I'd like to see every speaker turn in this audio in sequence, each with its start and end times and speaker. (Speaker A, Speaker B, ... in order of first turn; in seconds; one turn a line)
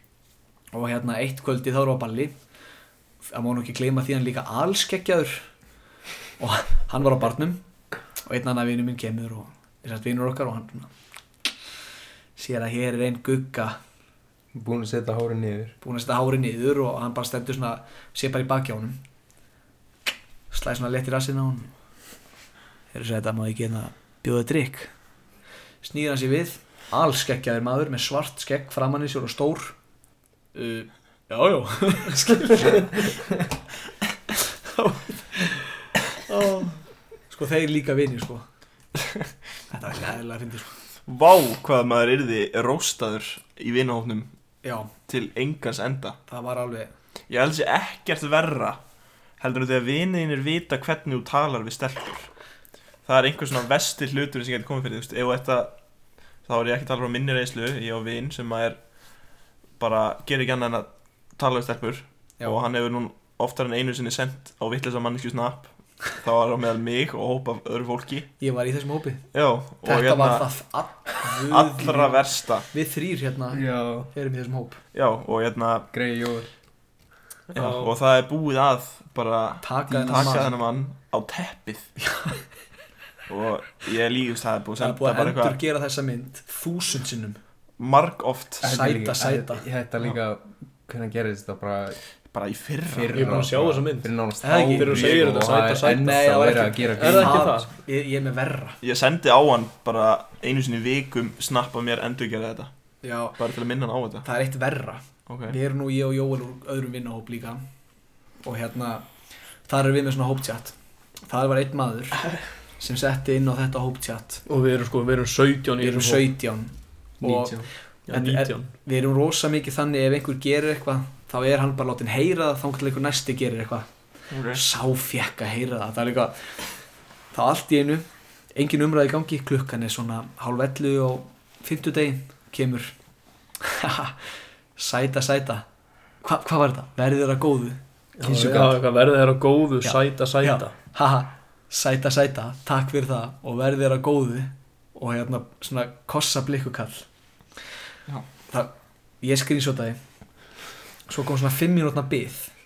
Speaker A: 0.7-2.4
Speaker A: 3.3-5.5
Speaker A: 6.4-7.6
Speaker A: 8.2-10.9
Speaker A: 12.3-13.8
Speaker B: 14.5-15.7
Speaker A: 15.8-19.0
Speaker A: 20.5-21.7
Speaker A: 22.9-24.9
Speaker A: 25.8-29.7
Speaker A: 30.6-32.9
Speaker A: 34.6-35.8
Speaker A: 36.3-36.8
Speaker A: 37.3-38.5
Speaker A: 39.7-40.7
Speaker C: 41.1-44.3
Speaker A: 44.6-44.9
Speaker C: 45.1-46.2
Speaker A: 46.3-46.9
Speaker C: 47.3-48.8
Speaker C: 49.4-52.3
Speaker C: 53.0-55.8
Speaker C: 56.4-58.8
Speaker C: 59.8-68.3
Speaker A: 68.4-69.3
Speaker C: 69.3-70.5
Speaker A: 69.8-74.8
Speaker C: 71.5-72.7
Speaker B: 73.5-74.1
Speaker C: 74.9-75.9
Speaker B: 75.9-76.5
Speaker D: 77.5-77.9
Speaker C: 77.5-82.0
Speaker A: 79.6-80.5
Speaker B: 79.9-80.5
Speaker C: 83.3-85.6
Speaker A: 84.8-87.4
Speaker C: 87.8-88.7
Speaker B: 88.6-92.0
Speaker A: 88.6-89.7
Speaker C: 92.3-93.4
Speaker B: 92.8-97.5
Speaker D: 93.1-96.2
Speaker A: 94.4-95.3
Speaker A: 95.8-98.8
Speaker D: 96.9-97.7
Speaker C: 98.8-102.7
Speaker A: 103.0-103.4
Speaker C: 103.4-104.3
Speaker A: 104.2-107.6
Speaker C: 105.3-105.5
Speaker A: 108.4-109.1
Speaker A: 109.7-114.4
Speaker D: 114.5-116.3
Speaker A: 115.8-123.9
Speaker B: 117.2-117.7
Speaker D: 118.1-118.7
Speaker C: 124.3-124.6
Speaker A: 124.5-126.6
Speaker A: 127.3-132.9
Speaker A: 133.6-135.7
Speaker A: 136.2-137.8
Speaker D: 138.2-140.8
Speaker B: 138.2-138.8
Speaker A: 139.8-147.1
Speaker A: 148.5-150.0
Speaker A: 151.1-152.5